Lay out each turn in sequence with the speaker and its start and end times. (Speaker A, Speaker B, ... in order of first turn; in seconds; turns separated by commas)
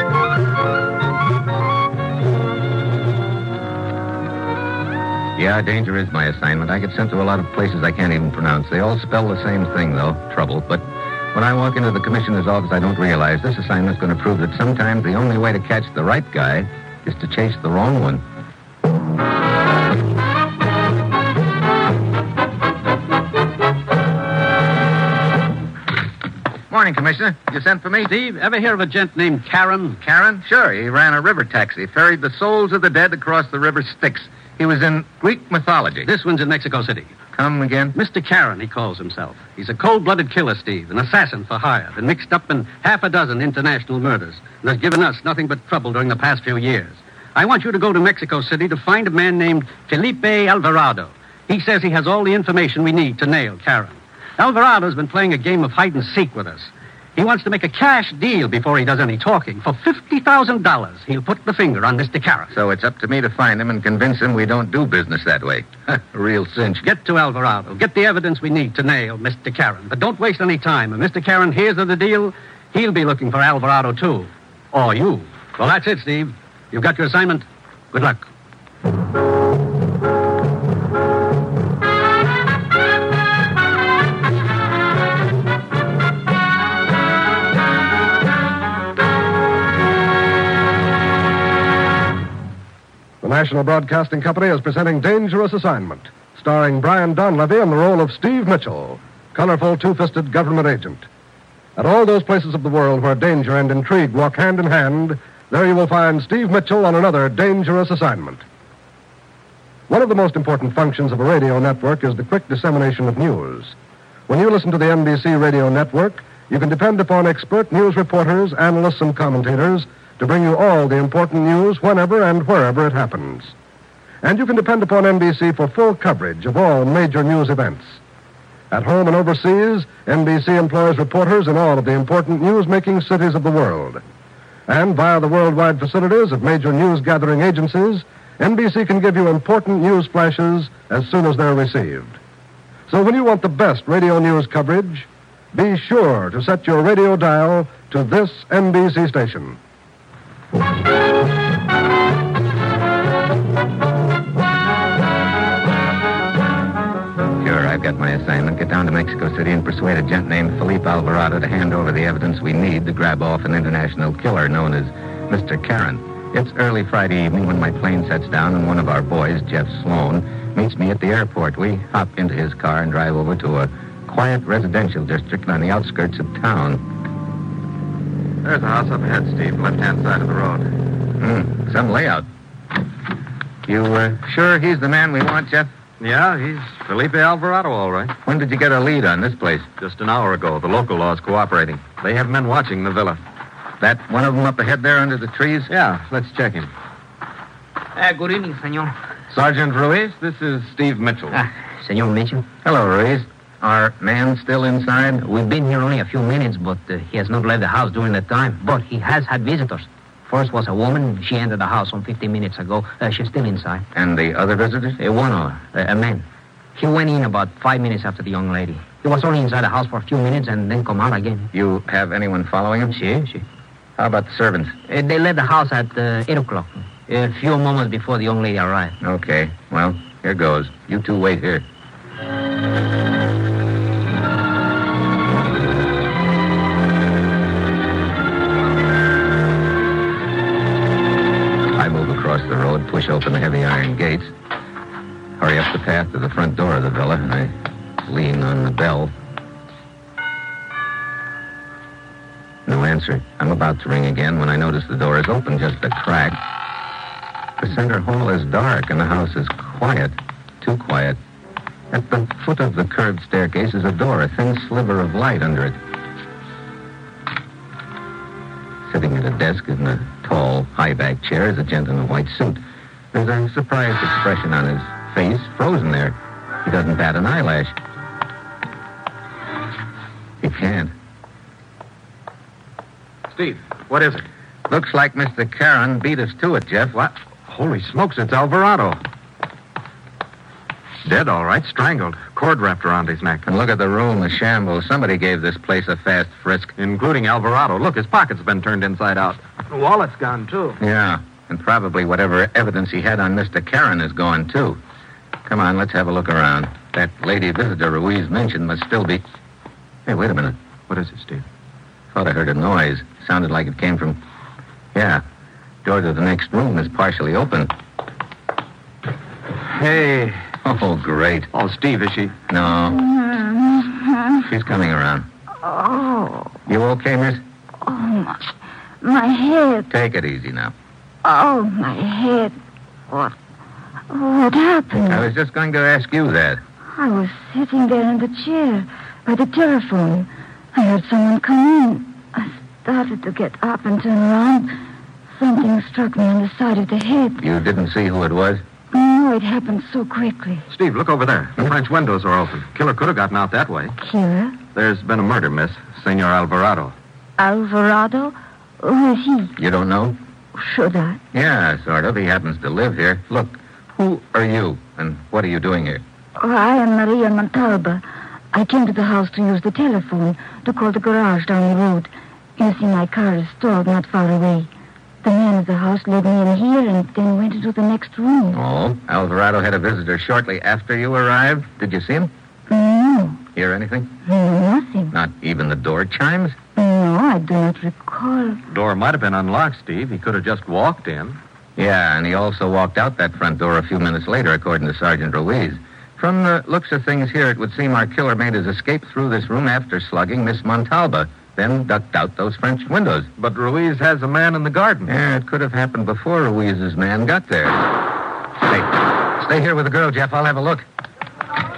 Speaker A: 5.4-18.2, Speaker A: 26.7-28.1, Speaker B: 28.0-30.0, Speaker A: 30.0-36.1, Speaker B: 36.0-37.1, Speaker A: 37.3-38.0, Speaker B: 37.9-62.5, Speaker A: 62.5-66.8, Speaker B: 66.8-78.2, Speaker C: 93.2-101.1, Speaker C: 101.8-108.4, Speaker C: 109.9-113.7, Speaker C: 114.3-123.5, Speaker C: 124.2-128.0, Speaker C: 128.7-134.0, Speaker C: 134.7-142.2, Speaker C: 142.9-149.6, Speaker A: 157.4-176.8, Speaker D: 178.4-180.7, Speaker A: 181.2-182.2, Speaker A: 183.7-185.7, Speaker D: 186.0-188.1, Speaker A: 188.2-189.7, Speaker D: 189.8-193.2, Speaker A: 193.8-195.7, Speaker D: 195.7-196.7, Speaker E: 198.0-198.9, Speaker D: 199.3-201.4, Speaker E: 201.3-202.4, Speaker A: 202.6-205.2, Speaker E: 205.2-213.8, Speaker A: 213.9-215.0, Speaker E: 215.0-216.2, Speaker E: 216.8-221.5, Speaker A: 221.5-223.0, Speaker E: 222.8-223.4, Speaker A: 224.0-224.8, Speaker E: 224.9-228.9, Speaker A: 229.0-231.6, Speaker A: 241.8-244.3, Speaker A: 245.4-247.5, Speaker A: 248.1-249.1, Speaker A: 252.7-256.4, Speaker A: 257.6-261.2, Speaker A: 261.9-265.8, Speaker A: 268.9-272.6, Speaker A: 273.1-277.8, Speaker A: 280.4-280.9, Speaker D: 283.3-284.2, Speaker A: 284.7-287.0, Speaker D: 287.0-289.0, Speaker D: 291.0-293.4, Speaker A: 293.4-296.7, Speaker D: 296.8-300.8, Speaker A: 300.8-304.8, Speaker A: 305.4-309.2, Speaker A: 310.1-310.6, Speaker D: 310.9-311.4, Speaker A: 312.1-314.2, Speaker A: 314.9-315.2, Speaker A: 315.8-317.7, Speaker D: 319.7-320.4, Speaker A: 320.6-321.5, Speaker D: 321.5-322.4, Speaker A: 322.5-323.0, Speaker F: 323.0-324.3, Speaker A: 324.4-325.2, Speaker F: 325.6-326.5, Speaker A: 326.7-327.4, Speaker F: 327.8-329.9, Speaker A: 329.9-330.7, Speaker F: 331.2-332.5, Speaker F: 333.1-333.3, Speaker F: 334.1-335.3, Speaker A: 335.0-336.6, Speaker F: 336.9-344.7, Speaker F: 345.3-347.4, Speaker A: 347.4-348.6, Speaker F: 348.9-350.6, Speaker D: 350.7-353.9, Speaker F: 354.0-354.6, Speaker D: 354.7-356.9, Speaker F: 357.4-359.5, Speaker A: 359.6-360.1, Speaker F: 360.6-361.2, Speaker A: 361.3-366.0, Speaker F: 366.4-374.7, Speaker F: 375.2-378.6, Speaker A: 378.5-382.3, Speaker F: 382.7-383.4, Speaker A: 383.5-384.1, Speaker F: 384.2-385.1, Speaker A: 385.1-386.6, Speaker F: 386.8-388.6, Speaker D: 388.7-391.4, Speaker A: 391.8-403.3, Speaker D: 403.4-405.1, Speaker A: 405.1-407.9, Speaker A: 408.7-410.9